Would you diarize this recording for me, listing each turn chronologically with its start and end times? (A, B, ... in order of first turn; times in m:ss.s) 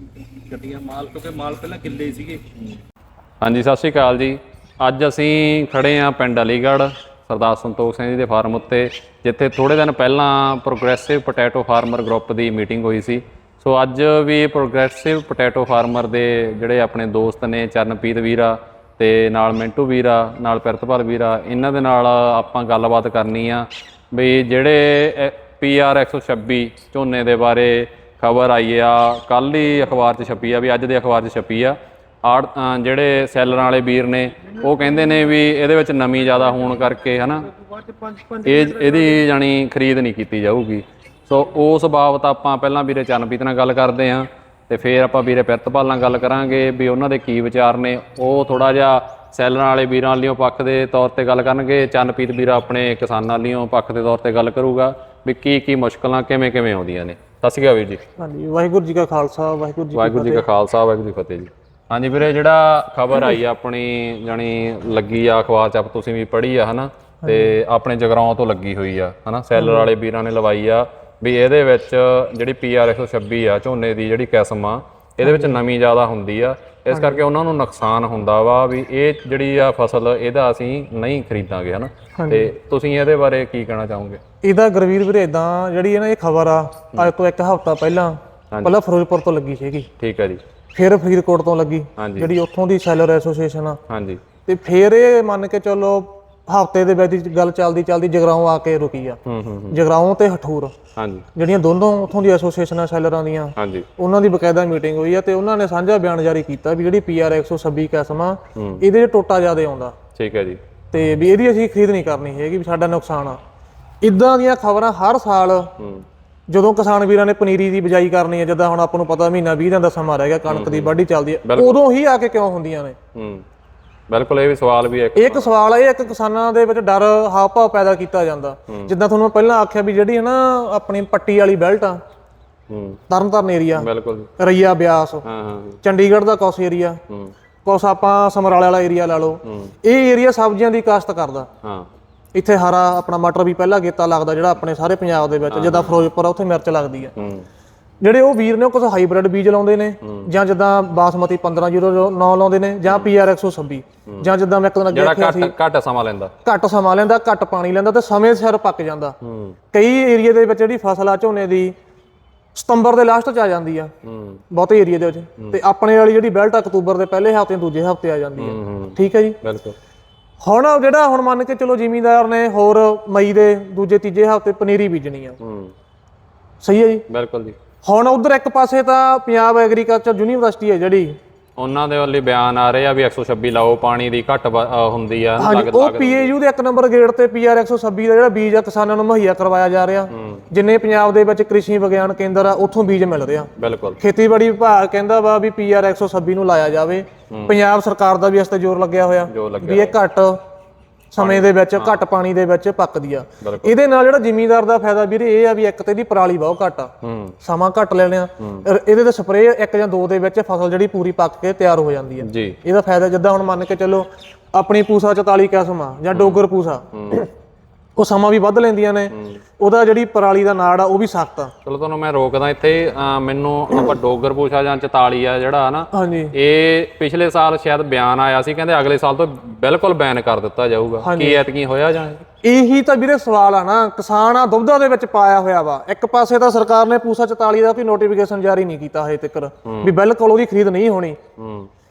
0:00.2-0:02.4 A
0:03.4-0:37.5 B
0:37.5-0:39.1 A
0:38.4-0:58.0 B
0:58.2-1:00.4 C
0:59.9-1:24.2 B
1:07.2-1:07.6 C
1:09.5-1:09.9 C
1:15.2-1:15.6 C
1:16.9-1:17.2 C
1:22.2-1:22.5 C
1:24.4-1:29.9 C
1:30.0-1:30.4 B
1:30.8-1:33.8 C
1:32.0-1:32.3 B
1:33.9-1:34.2 B
1:34.5-1:39.2 C
1:39.3-1:39.8 B
1:39.7-1:40.7 C
1:41.0-1:41.2 B
1:41.4-1:49.9 C
1:43.6-1:43.9 B
1:48.6-1:48.8 B
1:50.2-1:50.6 B
1:50.9-1:53.4 C
1:54.0-1:55.7 C
1:55.8-1:56.0 B
1:56.5-2:03.0 C
2:00.5-2:01.8 B
2:03.2-2:03.4 B
2:04.1-2:05.5 B
2:05.2-2:12.0 C
2:08.7-2:08.9 B
2:12.7-2:13.0 B
2:13.1-2:13.9 C
2:13.8-2:14.3 B
2:14.4-2:15.2 C
2:15.2-2:15.8 B
2:15.8-2:17.0 C
2:17.6-2:21.5 C
2:19.4-2:19.7 B
2:21.6-2:21.9 B
2:22.3-2:27.1 C
2:25.5-2:26.1 B
2:27.2-2:27.5 B
2:28.0-2:35.5 C
2:30.0-2:30.3 B
2:34.1-2:34.3 B
2:34.9-2:36.3 B
2:36.4-2:39.2 C
2:39.2-2:39.6 B
2:39.7-2:41.7 C
2:42.5-2:43.9 C
2:44.0-2:44.4 B
2:44.5-2:49.4 C
2:48.4-2:49.8 B
2:50.4-2:55.4 C
2:55.4-2:55.7 B
2:56.6-2:57.0 C
2:57.1-2:57.6 B
2:57.8-3:01.2 C
3:01.6-3:06.3 B
3:05.4-3:13.5 C
3:10.1-3:10.4 B
3:13.6-3:14.0 B
3:14.0-3:20.4 C
3:17.3-3:17.6 B
3:19.3-3:20.0 B
3:21.1-3:26.9 C
3:21.2-3:22.0 B
3:23.4-3:23.8 B
3:27.0-3:27.4 B
3:27.4-3:37.3 C
3:28.4-3:28.6 B
3:32.2-3:32.6 B
3:36.1-3:37.3 B
3:38.0-3:41.5 C
3:39.1-3:39.4 B
3:41.6-3:52.2 B
3:45.9-3:46.3 C
3:51.0-3:51.4 C
3:52.4-4:01.2 C
3:59.7-3:59.9 B
4:01.4-4:01.7 B